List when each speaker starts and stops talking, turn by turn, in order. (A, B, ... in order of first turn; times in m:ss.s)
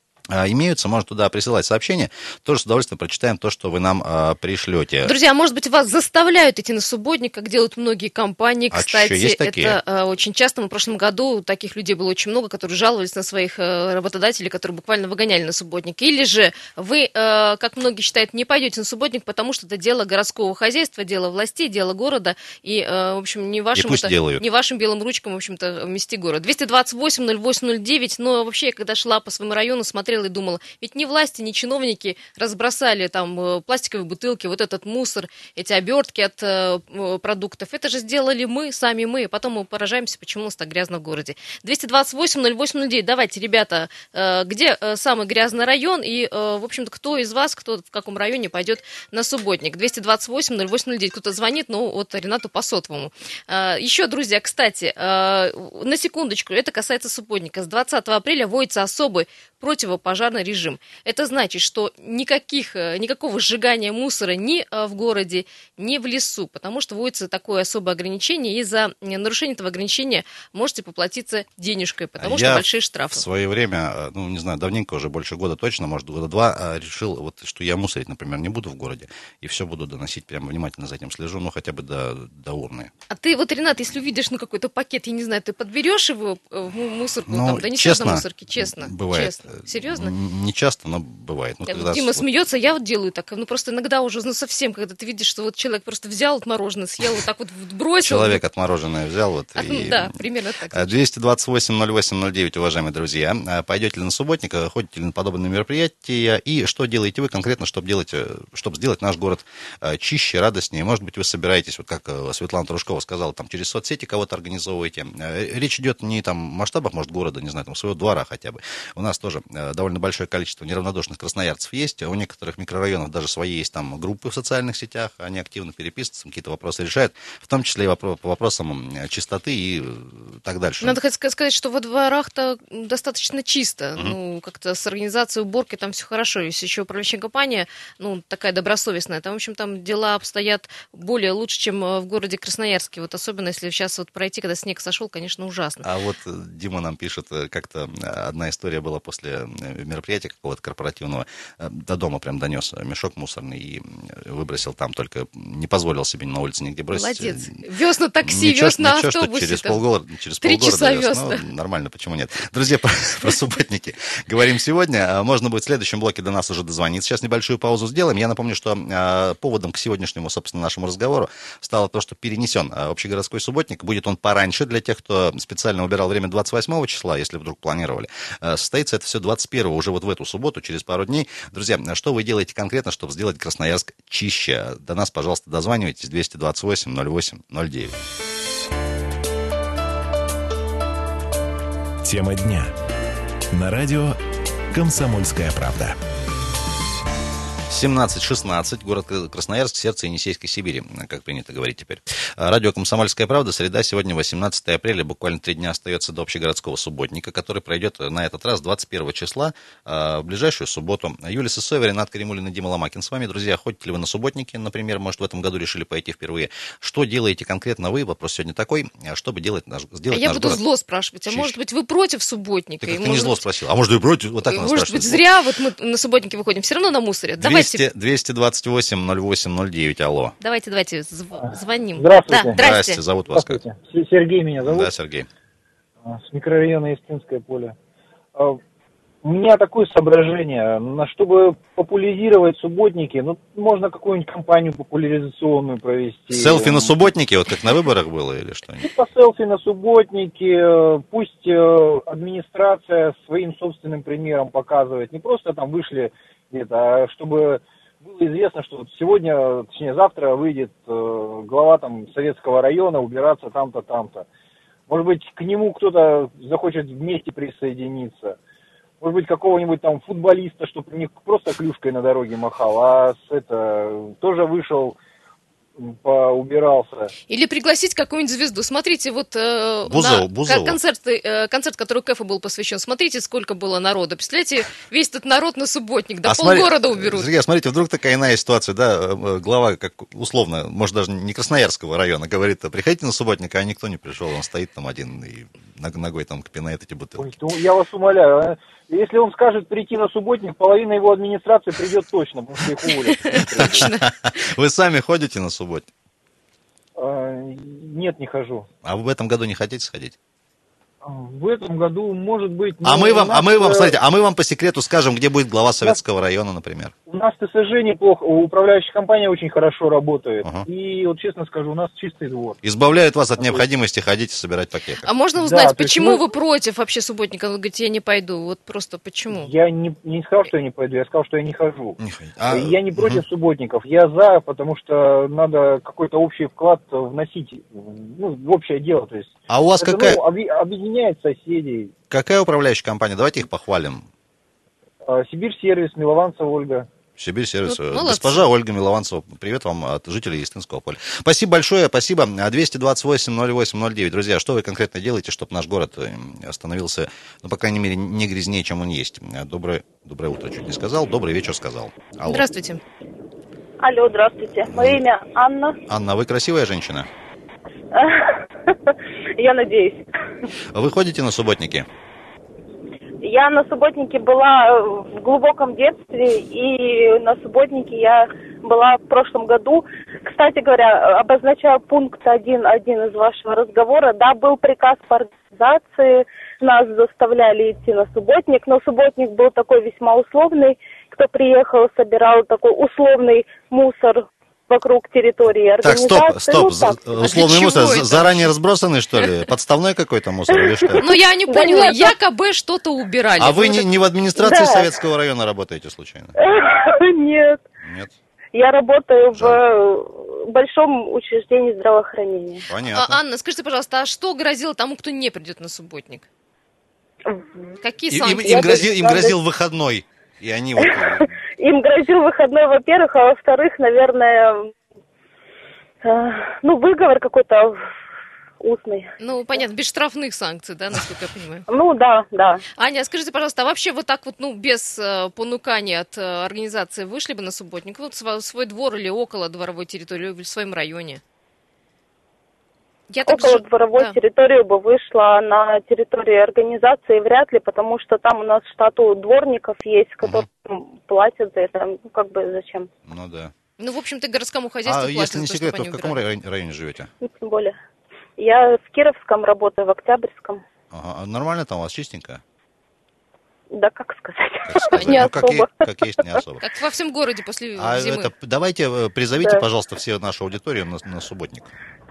0:00.3-0:05.1 A
0:05.0-1:13.2 B
0:08.7-0:09.8 A
0:23.8-0:24.4 A
1:12.2-1:22.9 A
1:23.1-1:30.1 B
1:27.3-1:32.2 A
1:31.7-1:38.4 B
1:38.0-1:40.2 A
1:39.6-1:41.0 B
1:40.7-2:11.0 A
2:10.8-2:25.8 B
2:25.8-2:37.6 A
2:36.9-2:39.8 B
2:38.2-3:08.0 A
2:40.4-2:41.4 B
3:12.0-3:12.7 C
3:13.5-3:14.2 C
3:14.7-3:16.0 C
3:17.7-3:40.6 A
3:40.1-3:43.4 B
3:41.3-3:41.6 A
3:42.8-3:45.2 A
3:44.4-3:47.8 B
3:47.4-3:50.4 A
3:50.4-3:53.0 B
3:51.4-3:52.6 D
3:52.6-3:53.6 A
3:53.3-3:54.9 D
3:54.6-3:55.3 A
3:56.0-3:57.8 D
3:58.4-3:58.6 D
3:59.2-4:07.0 D
4:06.3-4:08.9 A
4:08.8-4:24.3 D
4:24.9-4:28.4 D
4:29.0-4:35.0 D
4:35.8-4:37.1 D
4:37.3-4:47.3 B
4:39.9-4:40.8 A
4:46.2-4:57.3 A
4:57.2-5:03.9 D
5:03.3-5:04.0 B
5:03.6-5:05.9 A
5:07.0-5:08.7 D
5:08.8-5:10.2 A
5:11.0-5:14.0 D
5:12.8-5:16.9 A
5:17.1-5:22.6 D
5:22.6-5:25.1 A
5:23.4-5:23.6 D
5:25.0-5:29.5 B
5:25.4-5:26.3 D
5:29.3-5:32.0 D
5:32.0-5:33.2 A
5:32.5-5:41.9 D
5:39.5-5:40.2 A
5:42.1-5:44.1 A
5:45.1-5:46.9 D
5:47.2-6:02.5 A
5:47.7-5:48.5 B
6:02.2-6:02.8 B
6:03.8-6:05.8 E
6:04.7-6:05.0 A
6:05.9-6:07.1 A
6:07.9-6:08.8 E
6:09.4-6:10.1 E
6:10.7-6:11.9 A
6:13.2-6:37.0 E
6:35.8-6:41.0 A
6:37.2-6:38.5 B
6:40.5-6:42.1 E
6:41.0-6:43.9 B
6:43.4-6:46.3 A
6:44.4-6:44.9 E
6:46.4-6:47.6 E
6:47.8-6:48.2 A
6:48.5-6:52.7 E
6:49.3-6:49.6 A
6:52.7-6:53.2 A
6:52.9-6:56.3 B
6:57.3-6:57.8 E
6:57.8-6:58.8 B
6:58.1-7:01.3 A
6:58.4-6:59.4 E
7:00.8-7:04.7 E
7:06.0-7:07.8 E
7:08.6-7:09.1 E
7:09.2-7:11.6 B
7:11.7-7:12.6 E
7:12.8-7:21.2 B
7:23.1-7:24.2 B
7:23.2-7:32.9 E
7:33.1-7:33.5 A
7:33.8-7:36.2 B
7:34.9-7:37.1 A
7:37.2-7:37.8 E
7:38.4-7:40.6 E
7:40.9-7:42.4 A
7:43.7-7:45.8 E
7:44.7-7:46.6 A
7:46.6-7:48.3 B
7:47.8-7:51.7 A
7:49.4-7:49.6 E